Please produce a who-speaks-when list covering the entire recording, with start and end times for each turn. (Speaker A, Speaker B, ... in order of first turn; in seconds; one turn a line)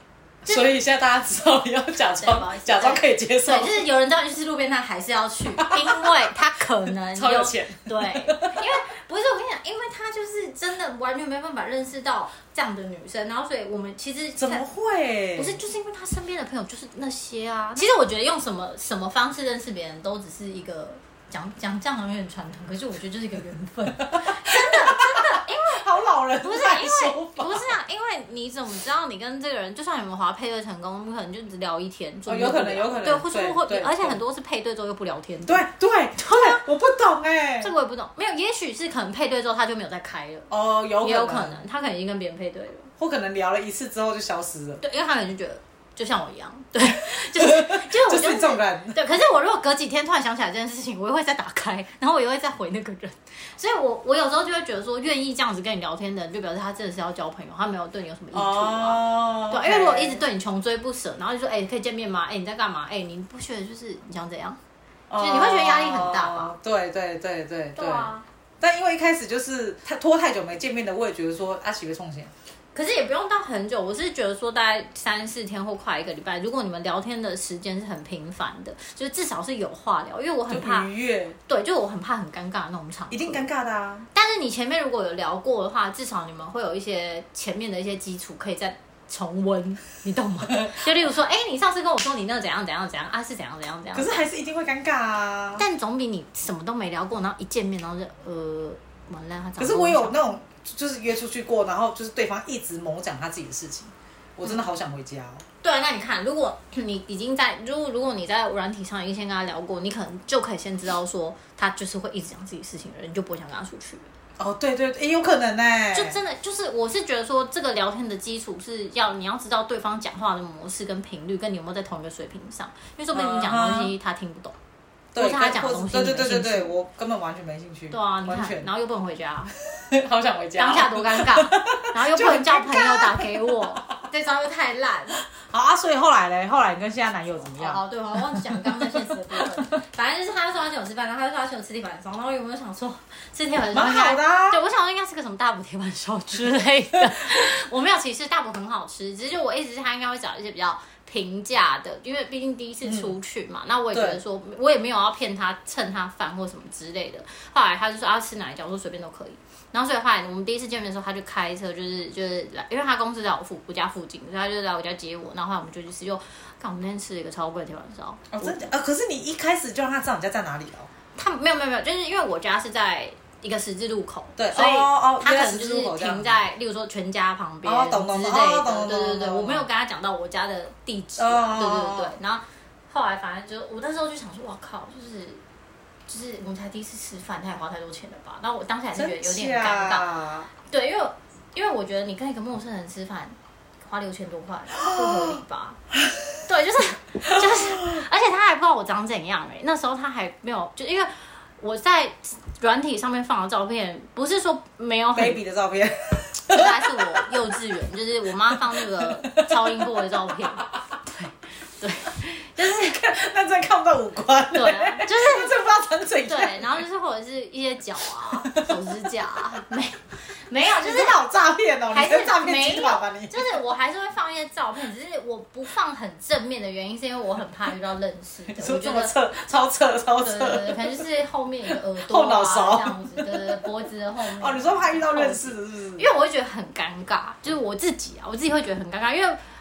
Speaker A: 0.4-3.8
Speaker B: 0.5-0.8
Speaker B: 2.2-14.7
Speaker A: 5.6-6.1
Speaker A: 7.1-8.7
Speaker A: 14.4-15.6
Speaker B: 15.3-25.8
Speaker A: 24.1-27.7
Speaker B: 26.4-35.7
Speaker A: 32.3-34.2
Speaker A: 35.5-37.7
Speaker B: 36.2-36.6
Speaker B: 37.6-40.5
Speaker A: 40.5-41.6
Speaker B: 41.0-42.9
Speaker A: 43.0-44.8
Speaker B: 44.8-64.6
Speaker A: 47.3-49.0
Speaker A: 58.3-60.2
Speaker A: 65.1-72.3
Speaker B: 65.2-66.5
Speaker B: 67.8-68.2
Speaker B: 72.7-80.9
Speaker A: 80.5-81.4
Speaker B: 81.5-83.5
Speaker A: 83.1-84.1
Speaker B: 84.1-94.2
Speaker A: 93.9-95.7
Speaker B: 95.6-100.2
Speaker A: 99.6-105.4
Speaker B: 105.6-114.1
Speaker A: 114.4-116.2
Speaker B: 115.9-124.5
Speaker A: 123.1-123.9
Speaker A: 125.1-128.7
Speaker B: 125.2-126.7
Speaker B: 127.9-129.5
Speaker A: 129.7-133.9
Speaker B: 130.6-135.2
Speaker A: 135.4-139.6
Speaker B: 137.6-168.7
Speaker A: 143.7-144.6
Speaker A: 152.8-153.1
Speaker A: 153.9-154.2
Speaker A: 168.3-170.9
Speaker B: 171.2-185.4
Speaker A: 174.4-176.4
Speaker A: 177.6-179.7
Speaker A: 181.2-182.2
Speaker B: 186.1-190.1
Speaker A: 189.0-190.5
Speaker B: 190.6-195.8
Speaker A: 194.8-195.4
Speaker B: 196.5-205.4
Speaker A: 197.4-198.0
Speaker A: 205.1-207.3
Speaker B: 206.5-213.0
Speaker A: 208.6-209.9
Speaker A: 212.7-216.8
Speaker B: 214.5-215.5
Speaker B: 216.3-221.2
Speaker A: 218.5-218.8
Speaker A: 220.6-223.6
Speaker B: 221.9-229.1
Speaker A: 228.5-231.0
Speaker B: 230.2-239.4
Speaker A: 231.7-233.6
Speaker A: 234.3-236.1